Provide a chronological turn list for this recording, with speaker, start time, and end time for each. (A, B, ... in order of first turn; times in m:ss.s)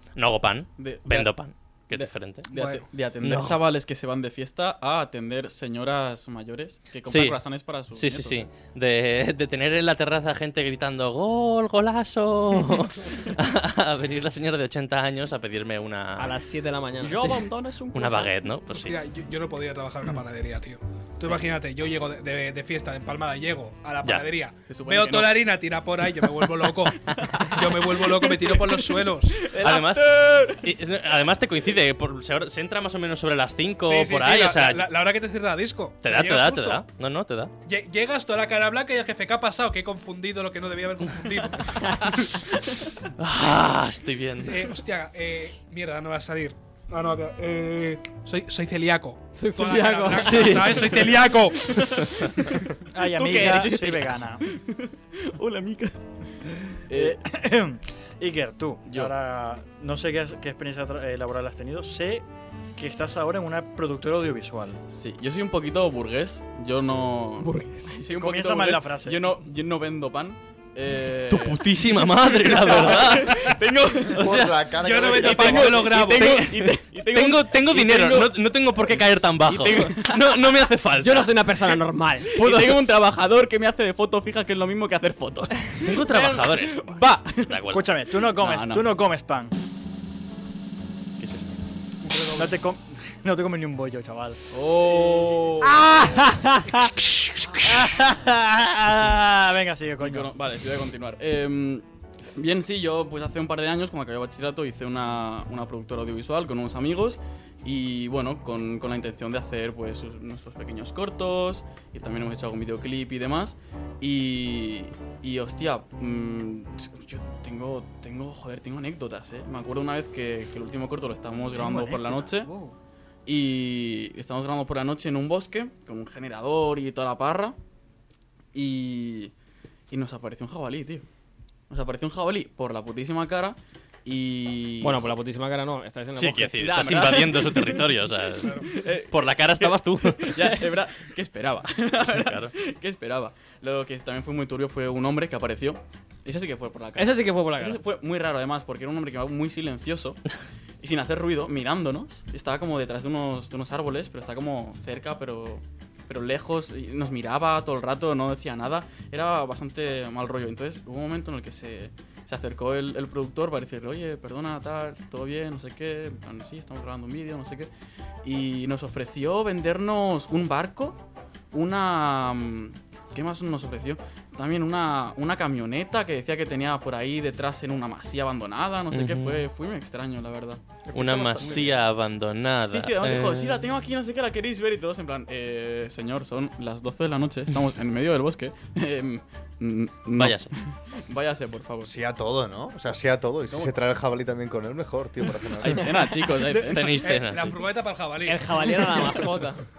0:00.2-0:02.5 A
0:00.8-0:01.3 B
0:01.9-0:08.5 B
0:02.5-0:02.9 C
0:03.2-0:03.6 A
0:07.1-0:07.4 A
0:07.9-0:16.4 A
0:16.2-0:17.4 D
0:17.0-0:18.3 B
0:17.9-0:19.0 A
0:18.8-0:29.5 C
0:24.7-0:25.6 B
0:26.2-0:30.8 B
0:29.6-0:34.9 A
0:33.8-0:36.8 C
0:36.0-0:37.5 A
0:37.7-0:42.4 C
0:43.2-0:44.7 A
0:44.4-0:51.9 C
0:49.4-0:50.8 D
0:50.2-0:51.2 A
0:51.7-0:52.5 B
0:52.9-0:54.4 E
0:53.1-0:56.3 B
0:56.9-0:57.2 B
0:56.9-1:02.2 E
0:58.9-0:59.1 B
1:02.8-1:04.8 E
1:04.9-1:14.4 B
1:07.4-1:08.0 D
1:08.1-1:09.3 E
1:11.3-1:13.6 A
1:14.1-1:14.6 A
1:14.1-1:15.9 F
1:14.8-1:16.5 C
1:15.0-1:20.4 B
1:16.1-1:21.3 A
1:21.0-1:22.4 D
1:22.3-1:27.6 B
1:25.8-1:27.9 A
1:27.7-1:29.5 E
1:28.2-1:28.9 B
1:31.2-1:31.6 A
1:32.0-1:32.5 C
1:32.3-1:34.5 E
1:34.5-1:36.2 B
1:35.6-1:36.9 D
1:36.7-1:37.0 C
1:37.6-1:40.3 E
1:40.0-2:02.5 B
2:01.5-2:02.8 E
2:03.3-2:07.6 B
2:08.5-2:09.3 B
2:09.9-2:11.0 B
2:11.7-2:15.1 B
2:14.8-2:16.7 D
2:16.2-2:20.7 A
2:16.6-2:30.2 B
2:22.0-2:22.5 A
2:27.0-2:27.8 D
2:30.8-2:47.7 B
2:48.2-2:51.0 B
2:51.5-3:01.8 B
2:58.9-2:59.5 A
3:00.9-3:03.7 A
3:01.0-3:01.6 E
3:02.7-3:12.0 B
3:10.2-3:10.5 A
3:11.8-3:16.0 F
3:13.5-3:13.8 B
3:15.6-3:17.1 B
3:16.5-3:17.6 A
3:16.7-3:18.8 C
3:18.3-3:19.6 D